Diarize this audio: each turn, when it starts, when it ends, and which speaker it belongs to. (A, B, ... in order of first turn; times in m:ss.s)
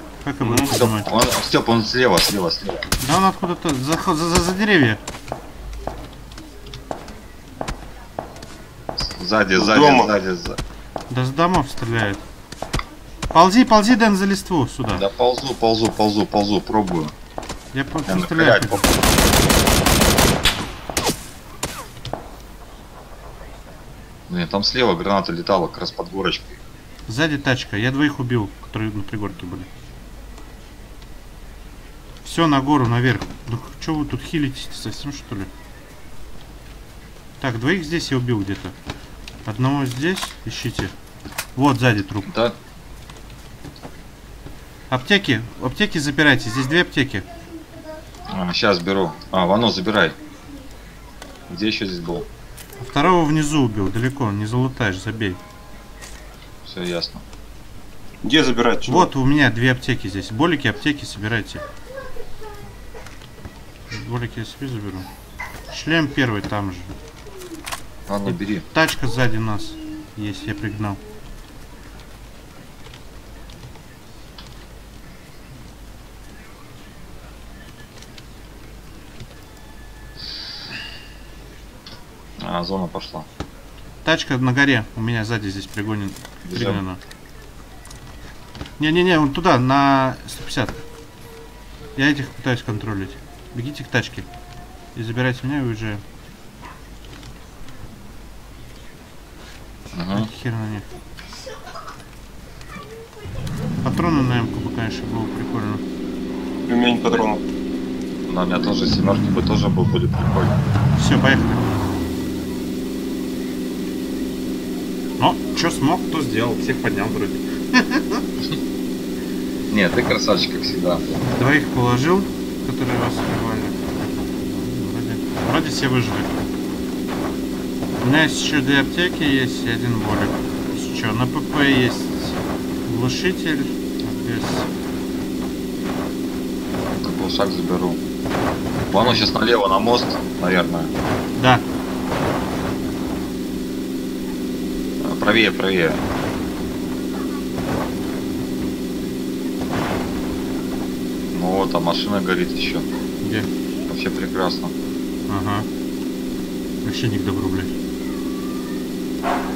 0:00.2-0:01.1 A
0:00.4-0:00.8 B
0:00.7-0:02.9 C
0:03.0-0:05.0 A
0:09.0-0:10.6 C
0:09.5-0:10.1 B
0:11.1-0:12.2 A
0:13.3-0:15.1 A
0:14.9-0:17.1 C
0:17.7-0:18.8 A
0:18.1-0:18.9 C
0:24.3-0:26.6 C
0:27.1-0:29.7 A
0:32.2-0:35.5 A
0:37.4-0:38.7 A
0:39.4-0:40.9 A
0:41.6-0:42.3 A
0:42.3-0:42.6 C
0:44.9-0:47.3 A
0:48.3-0:50.2 C
0:51.5-0:52.3 C
0:52.8-0:55.4 A
0:56.6-0:57.2 C
0:58.2-0:59.1 B
0:58.9-1:01.6 A
1:03.9-1:05.1 A
1:05.7-1:06.9 A
1:08.1-1:08.6 C
1:08.3-1:11.0 A
1:22.4-1:23.2 C
1:24.0-1:27.0 A
1:26.4-1:26.8 C
1:28.8-1:30.8 A
1:32.0-1:34.3 A
1:34.9-1:36.0 A
1:39.9-1:40.3 C
1:40.1-1:40.9 A
1:43.8-1:45.8 A
1:46.6-1:47.4 B
1:48.3-1:50.6 C
1:51.0-1:51.7 A
1:55.2-1:58.2 A
1:59.7-2:01.2 C
2:01.3-2:03.9 A
2:04.4-2:06.5 A
2:08.0-2:14.7 A
2:17.0-2:18.0 C
2:18.9-2:20.9 C
2:18.9-2:19.2 A
2:21.4-2:21.6 A
2:25.0-2:26.0 C
2:31.3-2:32.8 C
2:33.2-2:33.5 A
2:33.9-2:34.7 C
2:35.3-2:35.7 A
2:36.8-2:37.7 A